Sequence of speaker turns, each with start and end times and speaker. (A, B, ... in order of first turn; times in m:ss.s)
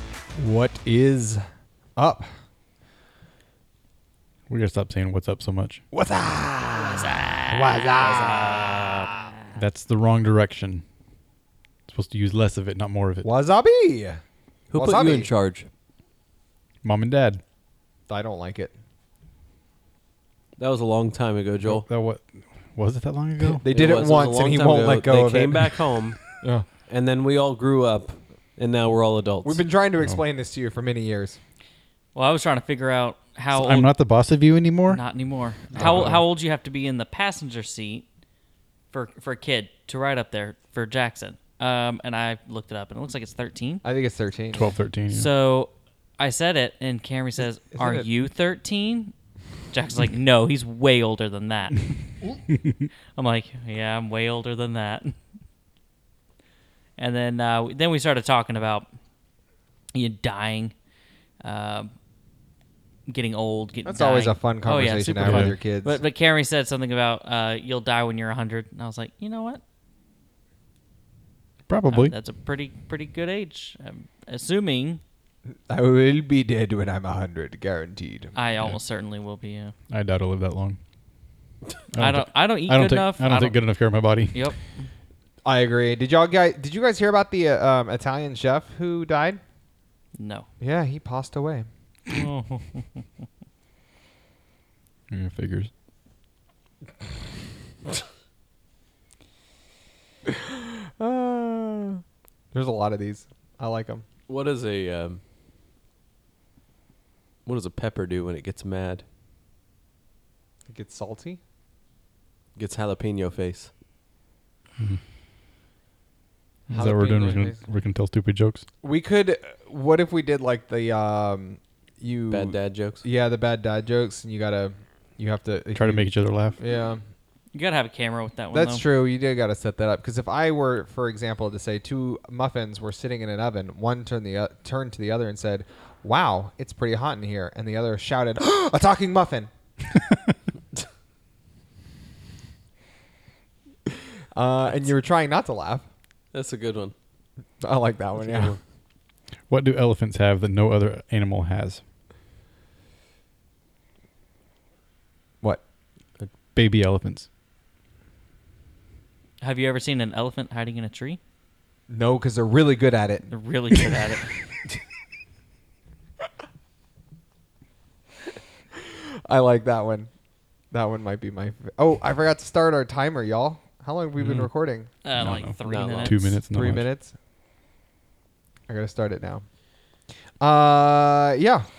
0:00.4-0:01.4 A
0:02.0-0:02.3 A
0:04.5-0:05.8 B
0:05.9-0:09.1 A
0:06.8-0:09.2 C
0:09.6-0:10.8 B
0:11.9-0:13.3 B
0:13.2-0:14.2 A
0:14.7-0:15.7 D
0:14.8-0:15.3 A
0:16.8-0:17.4 B
0:18.1-0:18.7 A
0:20.6-0:21.8 D
0:21.7-0:23.6 B
0:23.4-0:26.7 A
0:23.7-0:26.3 D
0:26.9-0:29.6 D
0:29.4-0:31.4 A
0:32.2-0:33.9 C
0:33.5-0:35.0 B
0:34.9-0:38.1 C
0:35.8-0:36.2 A
0:38.9-0:43.8 C
0:43.8-0:44.7 A
0:44.5-0:45.3 B
0:45.1-0:49.1 C
0:47.7-0:48.1 A
0:49.7-0:52.1 C
0:53.2-0:55.2 C
0:57.0-0:58.9 C
0:59.9-1:00.7 C
1:01.4-1:01.9 C
1:03.1-1:09.6 C
1:03.8-1:06.0 A
1:05.2-1:05.5 B
1:11.7-1:12.1 B
1:11.9-1:15.0 C
1:15.5-1:18.3 A
1:18.4-1:19.7 C
1:19.9-1:20.8 B
1:21.9-1:24.4 B
1:22.0-1:23.6 C
1:24.3-1:24.9 C
1:25.4-1:29.4 A
1:30.2-1:30.5 C
1:30.6-1:31.7 A
1:32.1-1:33.0 C
1:35.1-1:35.7 B
1:40.3-1:44.0 A
1:44.3-1:45.2 D
1:47.5-1:49.0 D
1:50.7-1:51.4 A
1:52.6-1:53.7 D
1:56.7-1:58.6 B
1:56.7-1:57.6 A
1:58.8-2:06.1 A
2:02.3-2:03.0 D
2:05.8-2:06.6 B
2:06.6-2:07.0 A
2:07.5-2:08.8 C
2:08.5-2:19.5 A
2:24.3-2:25.9 A
2:26.3-2:26.9 D
2:27.6-2:28.6 A
2:28.2-2:28.6 D
2:29.5-2:31.8 B
2:36.6-2:37.3 B
2:39.4-2:41.2 C
2:41.9-2:43.3 A
2:43.3-2:44.3 C
2:48.8-2:50.1 A
2:50.7-2:54.9 A
2:54.2-2:54.5 B
2:55.0-2:56.4 C
2:55.2-2:56.9 B
2:55.6-2:56.2 D
2:56.5-2:57.1 A
2:58.7-2:59.4 A
3:00.4-3:01.7 A